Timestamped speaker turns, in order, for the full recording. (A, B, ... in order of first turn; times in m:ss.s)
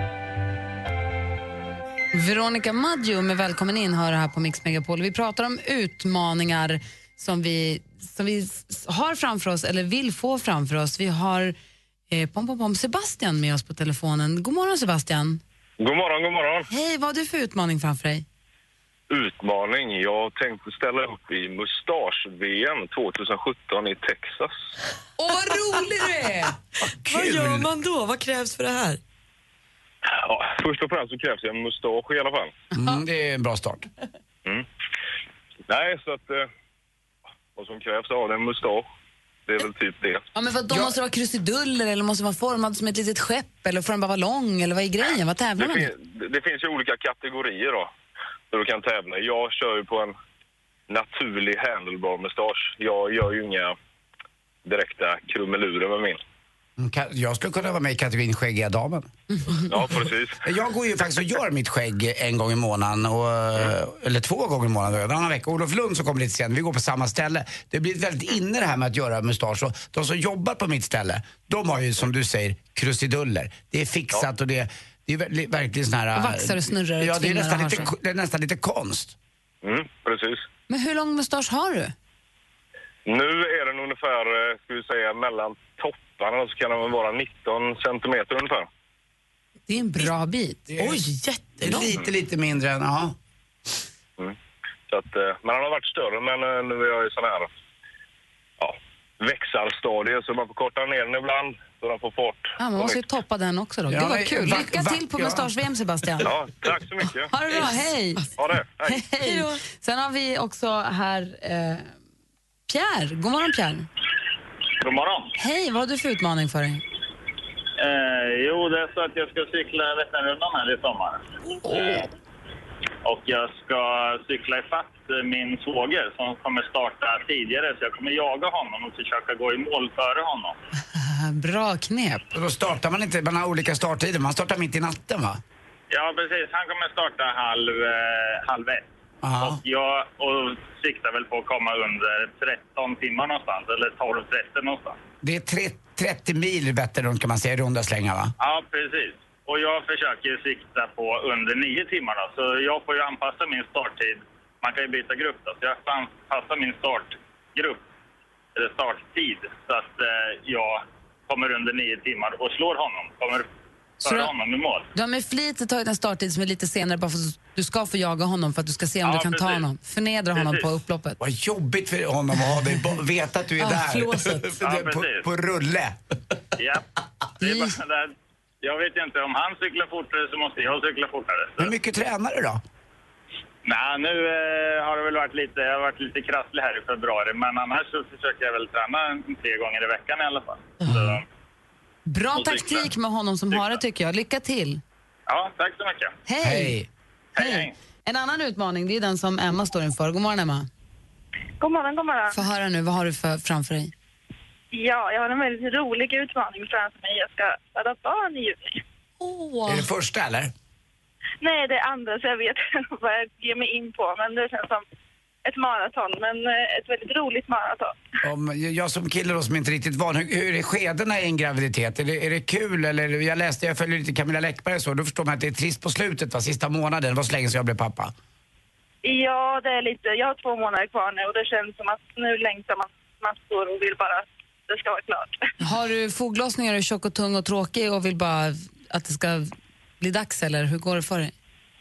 0:02.1-0:11.6 A
0:12.1-0:15.4 A
0:15.8-0:16.7 B
0:16.7-0:18.2 A
0:19.1-0:24.7 B
0:25.2-0:26.6 A
0:27.0-0:27.7 C
0:27.0-0:29.0 D
0:30.1-0:32.6 B
0:32.7-0:33.9 C
0:35.7-0:36.5 B
0:37.6-0:38.9 B
0:39.5-0:40.2 B
0:40.4-0:45.9 A
0:45.6-0:47.9 B
0:48.5-0:50.2 B
0:50.9-0:53.8 B
0:54.6-0:56.2 B
0:56.8-0:59.1 C
0:59.7-1:00.4 B
1:00.4-1:19.2 C
1:16.2-1:17.9 A
1:19.6-1:20.5 B
1:20.7-1:21.9 A
1:23.1-1:28.7 B
1:29.7-1:30.7 A
1:30.7-1:31.0 C
1:30.8-1:32.0 D
1:31.6-1:33.2 C
1:34.9-1:37.5 B
1:38.6-1:43.0 B
1:42.6-1:46.3 A
1:43.9-1:45.5 C
1:46.2-1:47.3 B
1:47.3-1:48.3 A
1:48.4-1:49.0 B
1:48.8-1:51.9 A
1:49.2-1:49.6 D
1:52.7-1:53.9 A
1:54.8-1:55.4 E
1:55.4-1:56.8 A
1:57.8-2:01.2 E
2:01.7-2:02.0 A
2:03.0-2:10.6 E
2:10.9-2:12.2 A
2:12.3-2:15.4 C
2:15.9-2:18.9 E
2:19.2-2:19.6 C
2:19.4-2:25.0 E
2:25.2-2:28.3 C
2:28.4-2:37.8 E
2:38.6-2:43.5 E
2:44.0-2:44.9 E
2:44.0-2:44.3 A
2:45.0-2:51.2 A
2:49.0-2:49.6 E
2:50.4-2:50.7 E
2:51.2-2:56.0 C
2:53.6-2:54.5 D
2:54.6-2:55.3 E
2:56.6-2:56.8 E
2:57.4-3:01.7 E
3:01.6-3:02.6 C
3:03.6-3:11.2 E
3:10.8-3:11.2 D
3:12.1-3:14.8 A
3:12.4-3:12.9 E
3:15.3-3:16.2 E
3:16.3-3:16.8 A
3:16.4-3:16.9 C
3:17.4-3:17.7 E
3:17.4-3:20.7 A
3:21.6-3:22.4 F
3:22.3-3:23.9 A
3:24.7-3:28.8 F
3:29.7-3:30.5 C
3:31.4-3:34.8 F
3:35.4-3:38.0 F
3:38.2-3:48.1 C
3:49.0-3:55.4 F
3:55.6-4:01.3 A